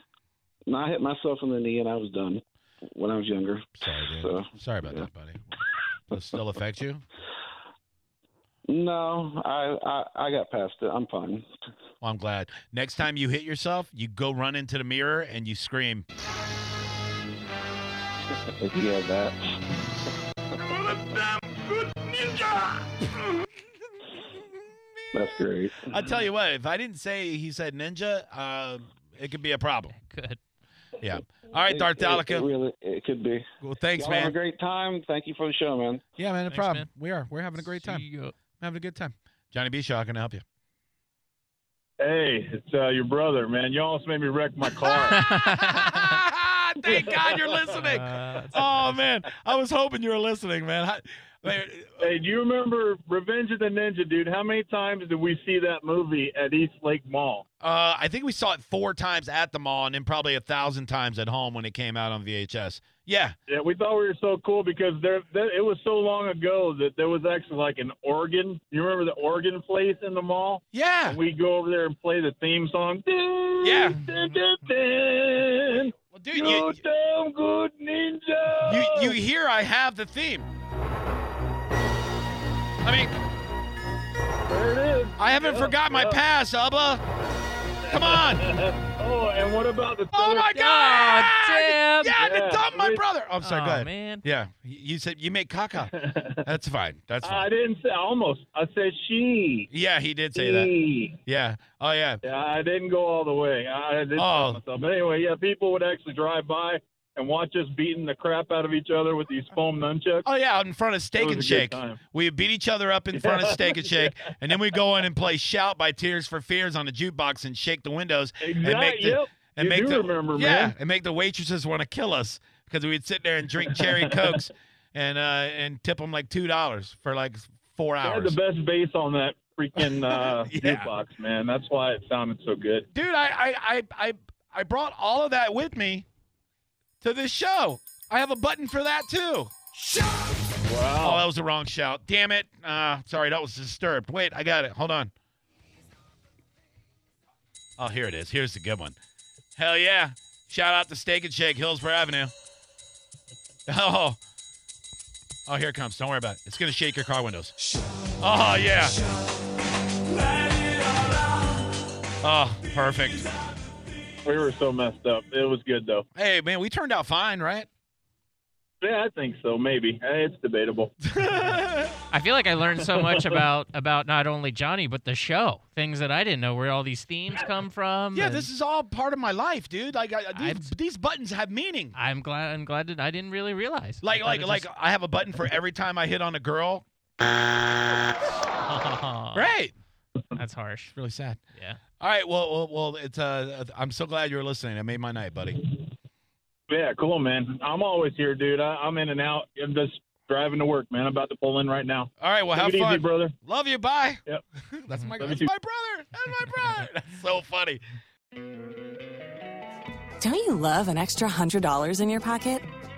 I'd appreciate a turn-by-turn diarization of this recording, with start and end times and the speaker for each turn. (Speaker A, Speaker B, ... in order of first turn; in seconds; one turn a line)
Speaker A: 0.7-5.1
Speaker B: 3.8-5.4
Speaker B: 6.1-7.0
Speaker A: 8.7-11.4
Speaker B: 12.0-16.1
Speaker A: 18.6-19.6
Speaker A: 25.1-26.1
Speaker B: 25.9-29.9
Speaker C: 30.0-30.4
Speaker B: 31.0-32.5
Speaker A: 31.7-33.5
Speaker B: 33.6-34.3
Speaker A: 34.0-36.0
Speaker B: 36.2-38.0
Speaker C: 36.5-36.9
Speaker C: 37.6-38.3
Speaker B: 38.6-40.4
Speaker D: 42.0-45.2
Speaker B: 44.8-52.1
Speaker C: 45.1-46.2
Speaker D: 46.8-47.6
Speaker C: 47.7-49.0
Speaker D: 52.0-57.4
Speaker B: 57.6-63.3
Speaker D: 63.5-79.2
Speaker B: 70.7-71.2
Speaker B: 73.6-74.0
Speaker B: 76.1-76.8
Speaker B: 78.6-80.5
Speaker B: 82.8-83.1
Speaker D: 84.5-86.2
Speaker B: 85.2-87.0
Speaker D: 87.8-90.7
Speaker B: 87.9-88.5
Speaker B: 90.1-95.9
Speaker C: 90.5-92.2
Speaker D: 92.1-93.0
Speaker C: 93.4-94.2
Speaker D: 95.8-96.5
Speaker B: 96.4-97.5
Speaker D: 97.2-99.7
Speaker B: 99.7-100.7
Speaker D: 100.3-101.2
Speaker B: 101.2-102.2
Speaker D: 102.2-110.2
Speaker B: 104.2-104.6
Speaker B: 110.2-128.4
Speaker D: 111.2-112.0
Speaker D: 113.1-114.3
Speaker D: 118.4-120.7
Speaker D: 123.7-124.3
Speaker D: 128.0-132.9
Speaker B: 129.8-130.9
Speaker B: 132.9-136.1
Speaker B: 137.0-140.3
Speaker D: 140.6-141.2
Speaker B: 141.0-145.1
Speaker B: 147.8-148.9
Speaker B: 149.6-152.3
Speaker B: 153.7-154.2
Speaker B: 155.5-157.5
Speaker B: 158.2-159.0
Speaker D: 160.7-161.1
Speaker B: 162.2-163.3
Speaker D: 164.2-166.0
Speaker B: 166.1-167.7
Speaker D: 168.8-170.9
Speaker B: 171.0-172.0
Speaker C: 172.1-178.4
Speaker D: 172.8-173.4
Speaker B: 178.1-181.9
Speaker C: 180.3-180.7
Speaker C: 181.9-184.7
Speaker B: 184.0-186.8
Speaker C: 188.6-189.5
Speaker B: 189.3-189.7
Speaker C: 190.3-190.9
Speaker B: 190.9-191.4
Speaker C: 191.5-191.8
Speaker B: 192.0-195.6
Speaker D: 196.7-203.3
Speaker B: 202.2-207.8
Speaker D: 205.2-205.5
Speaker E: 210.2-212.7